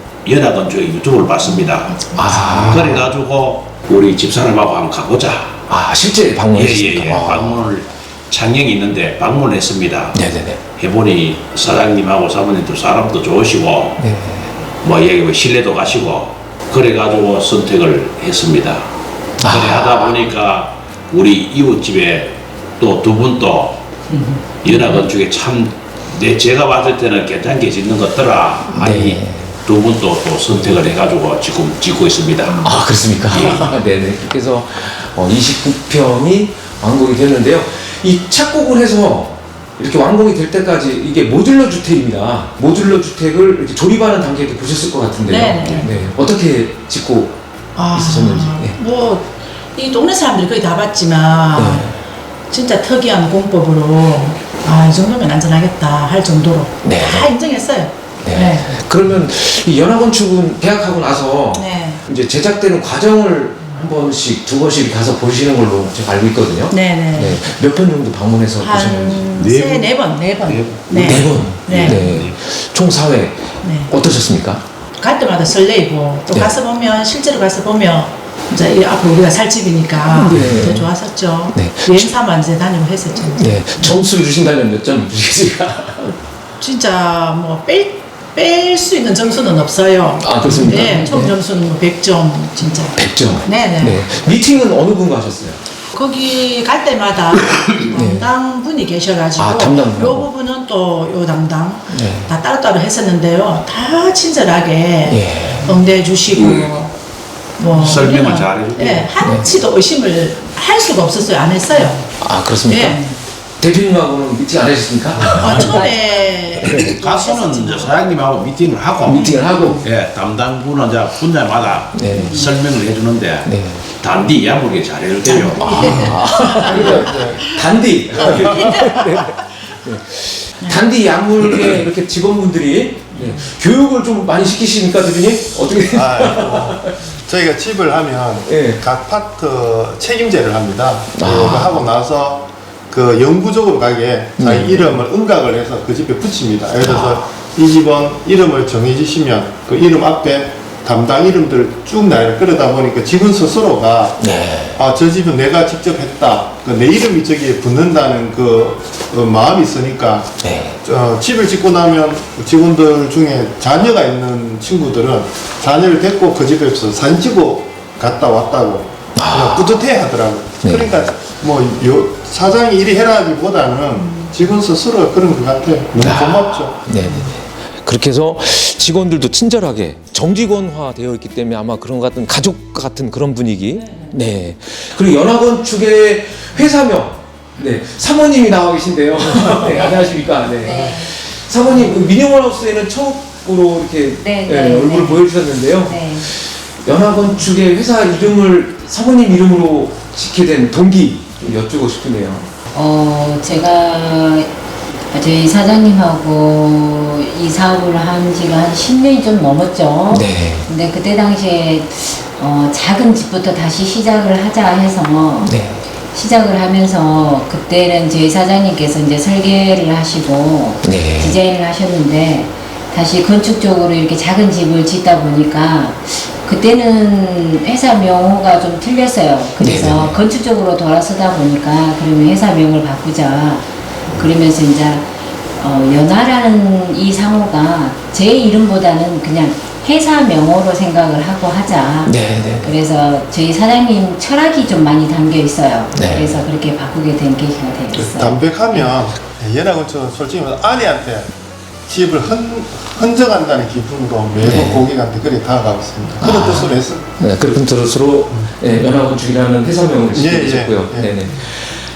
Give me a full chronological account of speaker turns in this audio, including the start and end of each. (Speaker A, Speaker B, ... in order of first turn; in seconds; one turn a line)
Speaker A: 0.2-5.6
Speaker B: 1.4-2.7
Speaker C: 2.1-3.1
Speaker C: 5.7-7.7
Speaker A: 6.5-10.2
Speaker C: 10.1-10.6
Speaker A: 10.8-14.0
Speaker C: 14.0-14.5
Speaker A: 14.8-23.8
Speaker C: 19.4-20.0
Speaker B: 24.1-25.0
Speaker A: 24.6-33.7
Speaker C: 28.7-29.6
Speaker C: 32.6-47.4
Speaker B: 45.3-46.0
Speaker B: 47.8-51.9
Speaker C: 47.9-48.8
Speaker C: 51.5-52.0
Speaker B: 52.5-58.8
Speaker C: 56.8-57.3
Speaker C: 58.2-69.2
Speaker B: 61.5-62.0
Speaker B: 66.7-67.4
Speaker B: 68.6-72.2
Speaker A: 69.2-72.4
Speaker C: 71.0-74.6
Speaker B: 73.6-73.9
Speaker B: 75.0-84.0
Speaker C: 80.1-80.9
Speaker C: 81.5-82.1
Speaker C: 83.2-86.1
Speaker B: 86.6-94.1
Speaker C: 90.2-91.3
Speaker C: 93.0-95.6
Speaker B: 95.9-106.9
Speaker C: 97.9-98.3
Speaker C: 99.4-100.3
Speaker C: 101.9-102.3
Speaker C: 105.1-105.8
Speaker A: 106.3-106.7
Speaker B: 107.6-112.1
Speaker A: 107.7-109.1
Speaker C: 109.2-109.5
Speaker C: 112.2-113.0
Speaker B: 112.7-113.2
Speaker C: 113.6-115.7
Speaker A: 115.2-115.8
Speaker B: 115.4-118.0
Speaker D: 115.5-116.8
Speaker A: 116.6-126.2
Speaker C: 119.1-119.8
Speaker B: 119.2-119.8
Speaker C: 121.9-122.4
Speaker C: 123.5-123.8
Speaker B: 125.2-127.6
Speaker C: 125.6-137.0
Speaker E: 126.6-127.5
Speaker E: 128.1-128.9
Speaker B: 128.5-129.6
Speaker B: 133.2-133.4
Speaker E: 135.9-176.9
Speaker C: 138.4-138.8
Speaker C: 141.1-141.8
Speaker C: 144.4-145.1
Speaker C: 146.8-147.2
Speaker C: 154.2-154.8
Speaker C: 160.4-160.8
Speaker C: 169.1-169.8
Speaker C: 170.6-171.0
Speaker B: 174.0-174.4
Speaker C: 176.0-202.4
Speaker B: 177.0-177.3
Speaker B: 183.8-184.1
Speaker D: 190.6-191.1
Speaker D: 194.2-196.3
Speaker D: 202.7-204.5
Speaker D: 205.1-215.6
Speaker C: 210.1-210.7
Speaker C: 215.4-215.8
Speaker D: 216.1-248.9
Speaker C: 220.8-221.4
Speaker C: 229.6-230.2
Speaker C: 242.1-242.7
Speaker C: 245.9-246.4
Speaker E: 247.9-251.3
Speaker E: 251.9-257.1
Speaker C: 254.4-254.9
Speaker C: 256.2-261.8
Speaker E: 260.1-261.2